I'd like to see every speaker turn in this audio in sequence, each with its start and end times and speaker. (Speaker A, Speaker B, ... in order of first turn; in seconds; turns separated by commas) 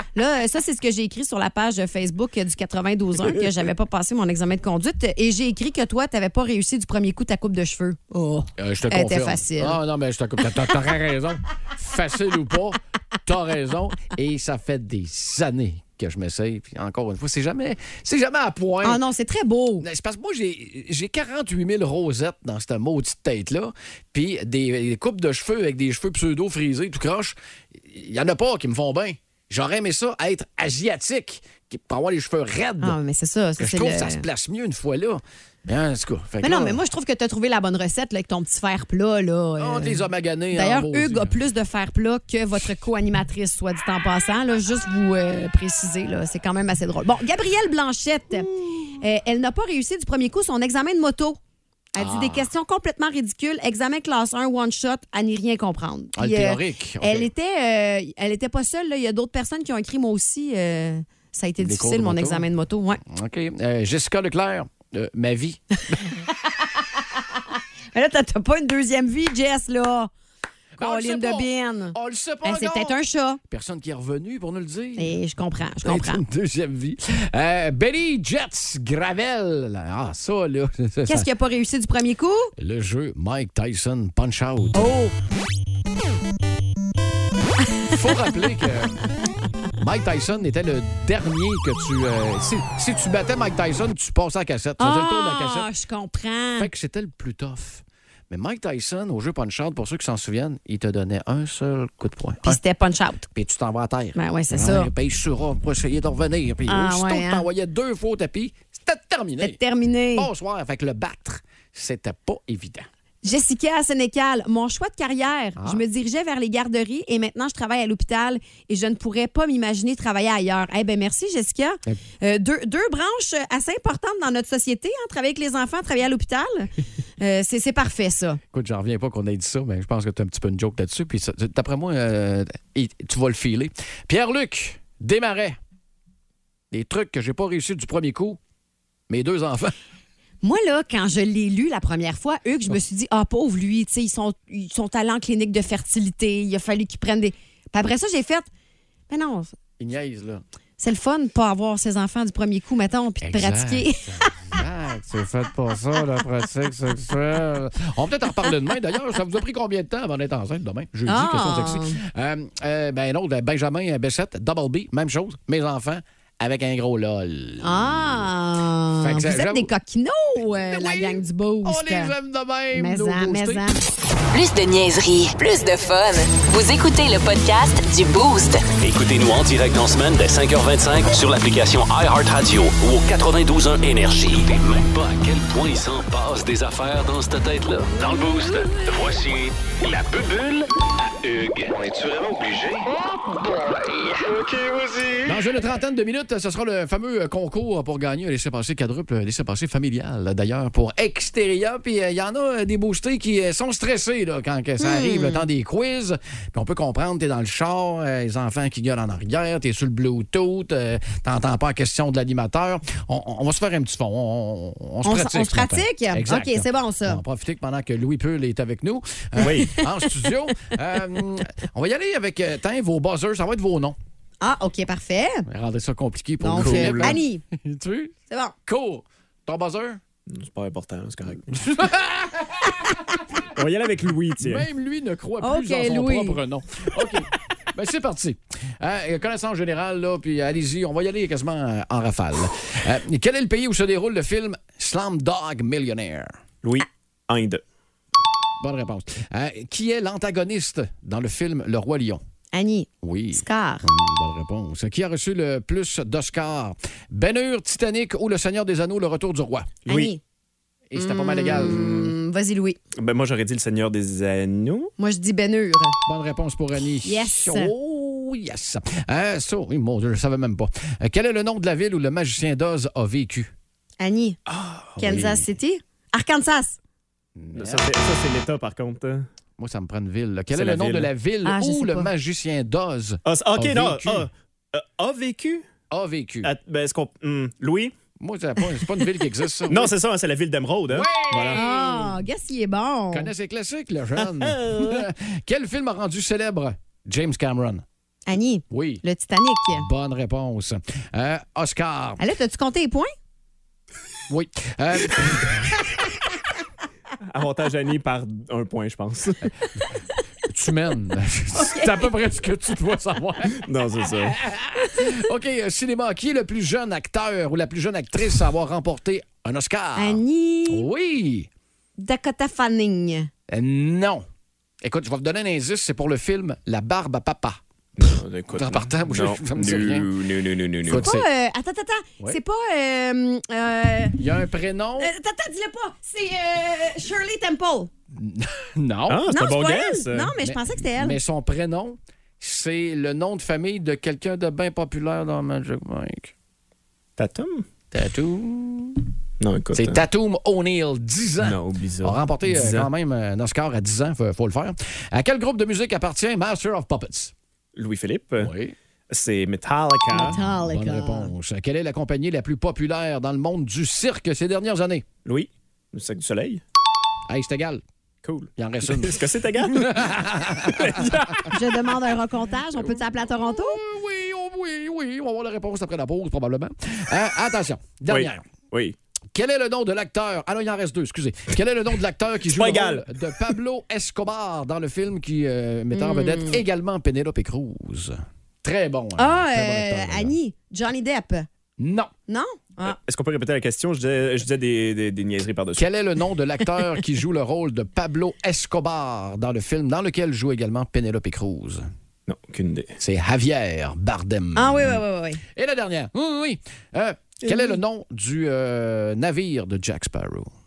Speaker A: 0.1-9.8, Speaker B: 8.6-19.0, Speaker A: 18.8-19.9, Speaker B: 19.8-33.0, Speaker A: 32.8-34.2, Speaker B: 33.6-36.8, Speaker A: 36.4-51.4, Speaker B: 39.6-41.4, Speaker B: 48.5-48.9, Speaker A: 52.0-63.0, Speaker B: 52.0-52.5, Speaker B: 56.2-57.3, Speaker B: 61.6-62.4, Speaker B: 63.1-66.0, Speaker A: 67.9-70.1, Speaker B: 70.8-72.9, Speaker A: 70.8-73.4, Speaker B: 73.5-75.1, Speaker A: 75.0-76.2, Speaker B: 75.8-81.3, Speaker A: 81.1-82.5, Speaker B: 82.6-84.9, Speaker A: 84.8-85.1, Speaker B: 87.9-89.0, Speaker B: 89.8-95.7, Speaker A: 94.8-96.7, Speaker B: 96.6-102.6, Speaker A: 102.4-103.3, Speaker B: 103.3-109.6, Speaker A: 104.2-104.9, Speaker A: 106.7-107.5, Speaker A: 109.4-110.3, Speaker B: 110.2-112.9, Speaker A: 113.2-128.4, Speaker B: 128.5-135.6, Speaker B: 136.7-138.4, Speaker B: 139.1-139.7, Speaker A: 140.4-148.5, Speaker A: 149.1-149.6, Speaker B: 149.8-150.4, Speaker A: 150.8-154.5, Speaker B: 153.2-168.3, Speaker A: 161.1-162.0, Speaker A: 167.6-172.1, Speaker B: 169.0-169.7, Speaker B: 170.7-173.7, Speaker A: 172.7-173.8, Speaker C: 174.3-178.7, Speaker D: 178.8-190.7, Speaker D: 191.2-192.9, Speaker D: 194.0-195.2, Speaker B: 195.3-224.0, Speaker A: 204.8-205.4, Speaker A: 215.1-217.2, Speaker E: 219.4-219.8, Speaker A: 224.4-225.5, Speaker B: 225.5-228.2, Speaker A: 226.4-227.4, Speaker E: 226.6-227.2, Speaker A: 228.3-228.6, Speaker B: 228.7-230.0, Speaker E: 230.3-231.6, Speaker B: 231.5-232.9, Speaker E: 233.5-234.7, Speaker B: 234.4-246.4, Speaker A: 235.4-236.4, Speaker E: 246.6-247.6, Speaker B: 248.6-252.2, Speaker A: 252.5-253.8, Speaker B: 253.0-259.7, Speaker E: 259.9-260.1, Speaker A: 259.9-260.2, Speaker B: 260.9-261.8, Speaker A: 261.0-262.8, Speaker E: 261.6-261.9, Speaker E: 263.0-264.9, Speaker A: 265.0-266.0, Speaker B: 266.1-273.5, Speaker A: 267.1-267.7, Speaker A: 274.0-274.4, Speaker E: 274.5-274.9, Speaker B: 275.0-275.4, Speaker A: 275.0-276.8, Speaker B: 277.4-277.9, Speaker E: 277.5-279.3, Speaker B: 279.6-284.3, Speaker E: 280.5-281.1, Speaker A: 281.4-282.1, Speaker E: 283.2-285.7, Speaker B: 285.9-286.5, Speaker E: 286.4-287.9, Speaker B: 288.2-289.9, Speaker E: 289.7-291.6, Speaker B: 290.9-292.1, Speaker A: 291.5-293.3, Speaker B: 293.1-297.8, Speaker E: 294.2-295.1, Speaker A: 298.3-299.9, Speaker B: 298.7-299.0, Speaker B: 299.8-302.2, Speaker A: 302.2-303.1, Speaker B: 304.3-305.8, Speaker E: 307.3-309.5, Speaker B: 310.5-313.6, Speaker A: 311.6-312.1, Speaker E: 313.6-314.4, Speaker B: 314.2-321.5, Speaker A: 320.0-320.9, Speaker A: 322.0-323.3, Speaker B: 323.5-324.2, Speaker B: 324.8-327.6, Speaker E: 328.0-331.1, Speaker B: 328.6-330.1, Speaker B: 330.9-331.2, Speaker A: 330.9-334.2, Speaker B: 334.2-335.1, Speaker A: 335.0-337.9, Speaker B: 338.2-339.2, Speaker E: 339.1-340.3, Speaker A: 339.3-341.2, Speaker B: 340.4-346.3, Speaker E: 347.2-347.7, Speaker B: 347.9-349.0, Speaker E: 349.4-350.0, Speaker B: 349.8-357.3, Speaker E: 351.4-352.9, Speaker E: 357.8-358.5, Speaker B: 358.4-358.8, Speaker E: 359.1-360.4, Speaker A: 360.1-361.3, Speaker B: 360.1-365.1, Speaker E: 365.2-366.6, Speaker B: 367.3-367.8, Speaker E: 368.2-370.1, Speaker B: 368.6-371.5, Speaker E: 370.7-371.6, Speaker A: 371.5-373.8, Speaker B: 372.8-378.5, Speaker E: 378.1-379.0, Speaker B: 379.3-390.3, Speaker E: 382.5-383.1, Speaker A: 385.9-386.6, Speaker A: 389.2-391.5, Speaker B: 391.8-392.1, Speaker A: 392.3-393.0, Speaker E: 392.9-395.8, Speaker B: 395.8-401.9, Speaker E: 402.3-402.9, Speaker B: 403.0-405.0, Speaker A: 404.6-405.4, Speaker B: 405.6-410.5, Speaker A: 407.4-407.8